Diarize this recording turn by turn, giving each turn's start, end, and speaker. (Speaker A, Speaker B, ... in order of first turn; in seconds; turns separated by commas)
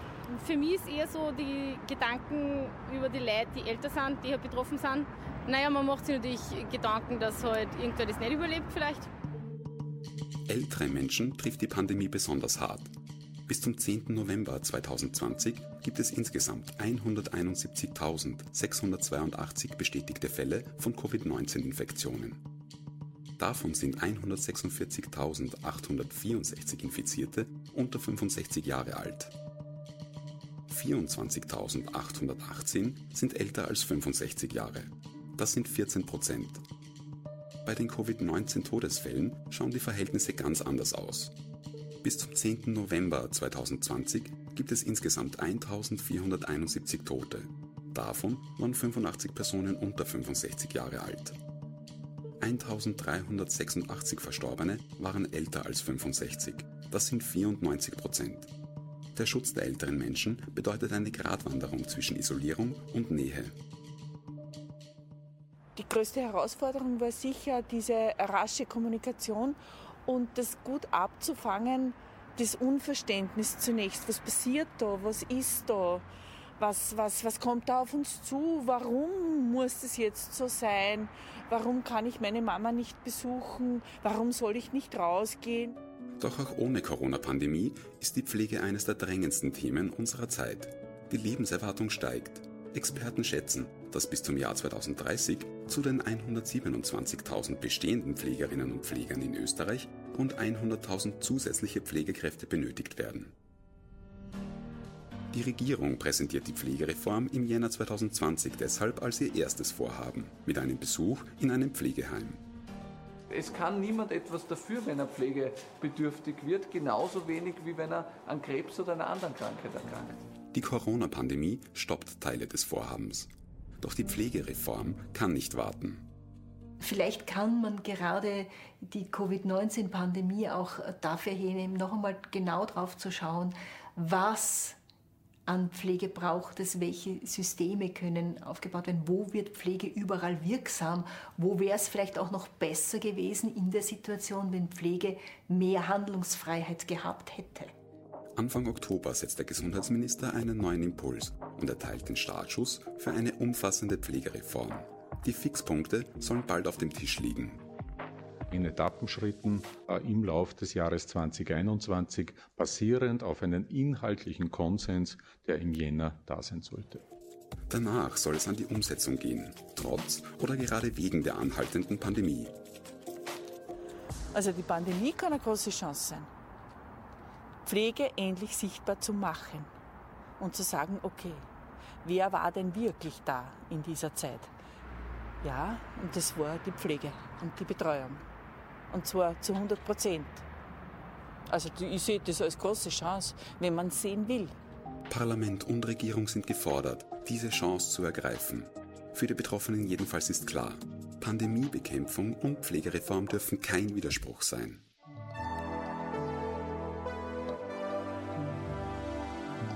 Speaker A: 0.3-9.1, Speaker B: 10.5-12.9, Speaker B: 13.5-22.4, Speaker B: 23.4-29.3, Speaker B: 30.7-36.6, Speaker B: 37.6-41.3, Speaker B: 42.0-51.4, Speaker B: 52.4-58.5, Speaker B: 59.1-63.5, Speaker C: 65.8-76.1, Speaker C: 76.6-85.8, Speaker B: 86.2-103.3, Speaker B: 105.3-112.4, Speaker D: 113.3-120.1, Speaker B: 120.5-123.3, Speaker B: 123.8-126.0, Speaker E: 126.8-134.8, Speaker E: 135.5-147.7, Speaker B: 148.4-157.6, Speaker F: 158.5-167.0, Speaker B: 167.7-172.5, Speaker C: 174.3-176.3, Speaker C: 177.7-179.7, Speaker C: 180.4-181.4, Speaker C: 182.0-184.5, Speaker C: 185.4-188.2, Speaker C: 188.9-190.4, Speaker C: 191.5-194.6, Speaker B: 195.1-204.8